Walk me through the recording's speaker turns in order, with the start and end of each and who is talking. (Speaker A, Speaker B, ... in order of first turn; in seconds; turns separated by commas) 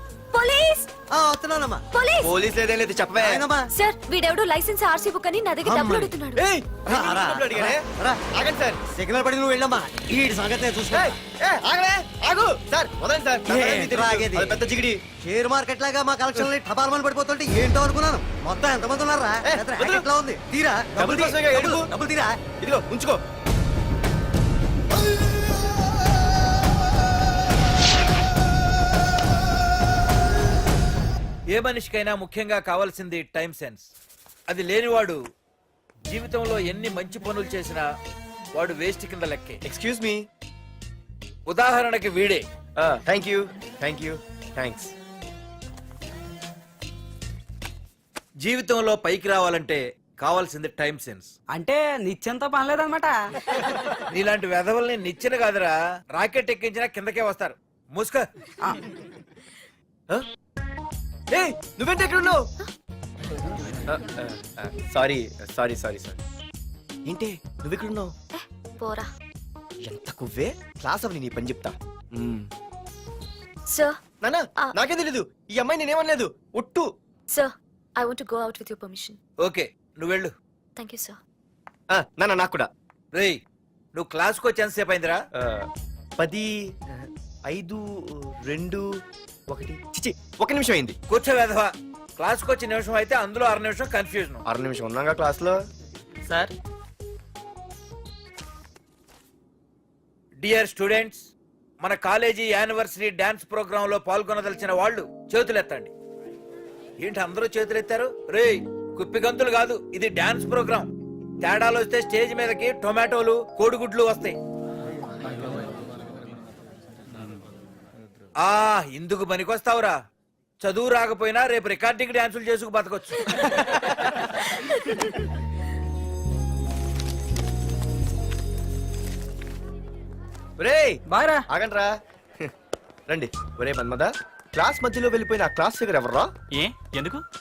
Speaker A: 0.3-0.9, Speaker B: 1.1-1.8, Speaker A: 1.9-2.3, Speaker C: 2.2-3.5, Speaker B: 3.2-3.7, Speaker A: 3.8-6.5, Speaker B: 5.6-6.1, Speaker C: 6.4-8.8, Speaker B: 6.9-8.2, Speaker B: 8.9-11.1, Speaker C: 10.9-15.0, Speaker B: 13.5-14.6, Speaker B: 15.2-22.4, Speaker C: 19.4-20.1, Speaker C: 20.9-21.9, Speaker C: 22.6-23.2, Speaker D: 31.5-33.9, Speaker D: 34.5-35.2, Speaker D: 36.1-37.9, Speaker D: 38.5-39.6, Speaker C: 39.7-40.2, Speaker D: 41.5-42.5, Speaker C: 42.8-44.9, Speaker D: 48.4-51.3, Speaker E: 51.5-53.2, Speaker D: 54.1-58.3, Speaker C: 61.3-62.5, Speaker C: 63.9-66.2, Speaker C: 67.1-68.1, Speaker A: 68.3-69.1, Speaker C: 69.8-72.5, Speaker C: 74.2-76.9, Speaker A: 77.3-79.2, Speaker D: 79.4-80.3, Speaker A: 80.8-81.2, Speaker C: 81.9-82.7, Speaker D: 83.1-83.4, Speaker D: 83.9-85.2, Speaker C: 85.4-85.7, Speaker C: 86.2-88.8, Speaker C: 89.5-91.0, Speaker D: 91.1-94.4, Speaker C: 94.5-95.6, Speaker D: 100.4-101.2, Speaker D: 101.8-105.9, Speaker D: 107.0-110.9, Speaker D: 111.4-114.4, Speaker D: 118.4-120.0, Speaker D: 120.6-123.3, Speaker A: 124.6-125.2, Speaker C: 130.6-132.5, Speaker E: 131.1-131.4, Speaker C: 133.1-136.3